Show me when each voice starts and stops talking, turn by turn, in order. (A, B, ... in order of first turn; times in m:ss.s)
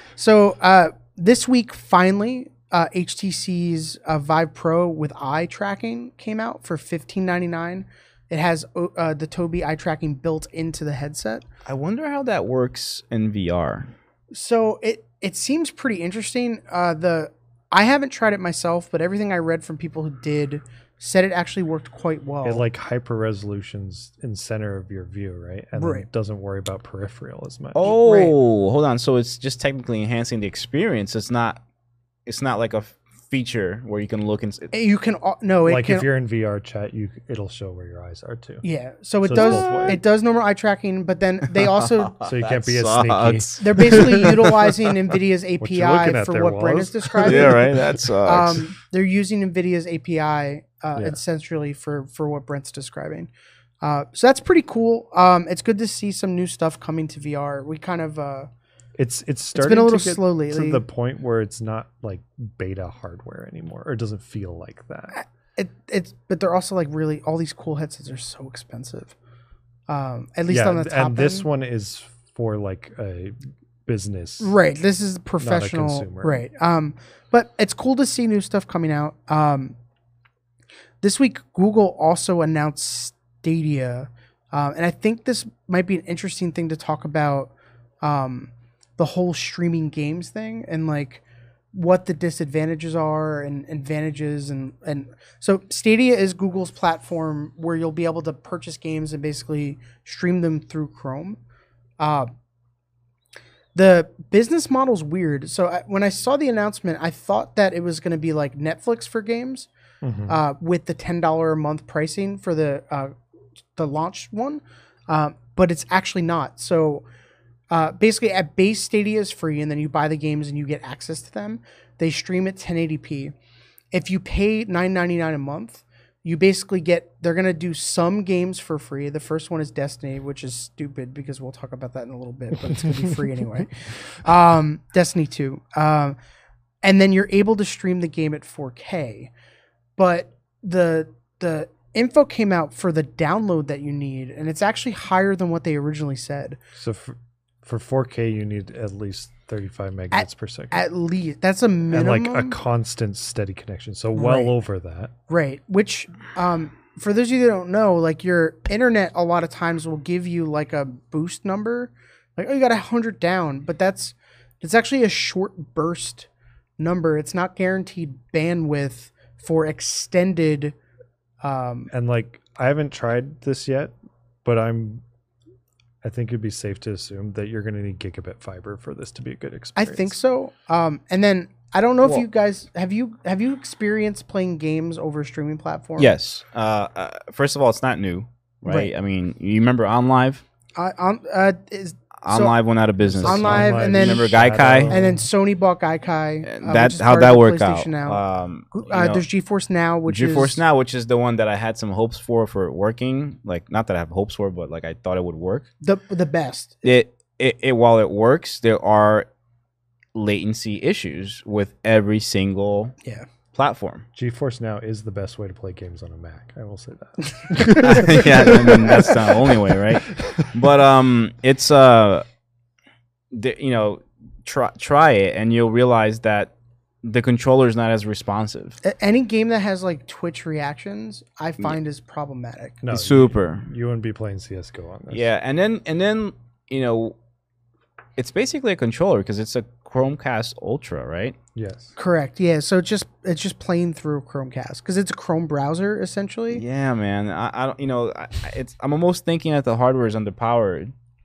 0:00.2-0:11.4 A
0:11.6-0:13.9 B
0:14.3-0:22.6 A
0:22.4-0:27.9 C
0:25.8-0:26.0 A
0:27.7-0:31.6 B
0:27.8-0:28.3 A
0:32.2-0:34.7 B
0:34.7-0:36.0 A
0:35.6-0:38.6 C
0:38.6-0:42.1 A
0:39.2-0:40.0 C
0:41.6-0:44.8 B
0:42.2-0:44.5 C
0:43.6-0:47.7 A
0:45.6-0:47.6 C
0:47.2-0:48.7 B
0:48.2-0:53.3 A
0:50.9-0:51.2 C
0:53.8-0:58.5 A
0:59.0-1:05.1 C
0:59.5-1:00.8 A
1:05.1-1:09.1 A
1:09.9-1:11.4 A
1:10.5-1:14.6 C
1:14.4-1:19.7 A
1:15.4-1:16.5 C
1:21.0-1:31.2 A
1:31.7-1:41.4 A
1:42.0-1:42.3 A
1:43.7-1:49.7 A
1:50.0-1:50.4 C
1:50.3-1:53.1 A
1:53.8-1:57.0 A
1:57.7-2:03.3 A
2:03.9-2:16.2 A
2:16.8-2:19.3 A
2:20.0-2:26.6 A
2:26.8-2:30.8 C
2:30.1-2:32.6 A
2:31.9-2:35.1 C
2:34.2-2:34.5 A
2:35.3-2:46.3 A
2:46.8-2:50.7 A
2:51.4-2:51.9 A
2:51.9-2:55.0 C
2:56.0-3:00.1 C
2:59.8-3:06.1 A
3:06.0-3:10.4 B
3:10.7-3:12.5 A
3:12.2-3:14.9 B
3:13.0-3:15.2 C
3:13.2-3:14.4 A
3:14.9-3:20.6 A
3:16.4-3:19.2 B
3:20.1-3:25.7 B
3:25.8-3:26.9 A
3:26.8-3:29.3 B
3:30.1-3:32.9 B
3:33.5-3:34.0 B
3:34.1-3:39.6 C
3:37.3-3:39.0 A
3:37.8-3:42.2 B
3:40.2-3:40.5 C
3:43.3-3:46.5 B
3:47.0-3:48.8 B
3:48.8-3:52.8 A
3:52.8-3:55.3 C
3:52.9-3:53.6 B
3:55.1-3:57.2 B
3:58.2-4:01.4 B
4:01.5-4:01.9 C
4:02.0-4:06.6 A
4:06.5-4:10.9 B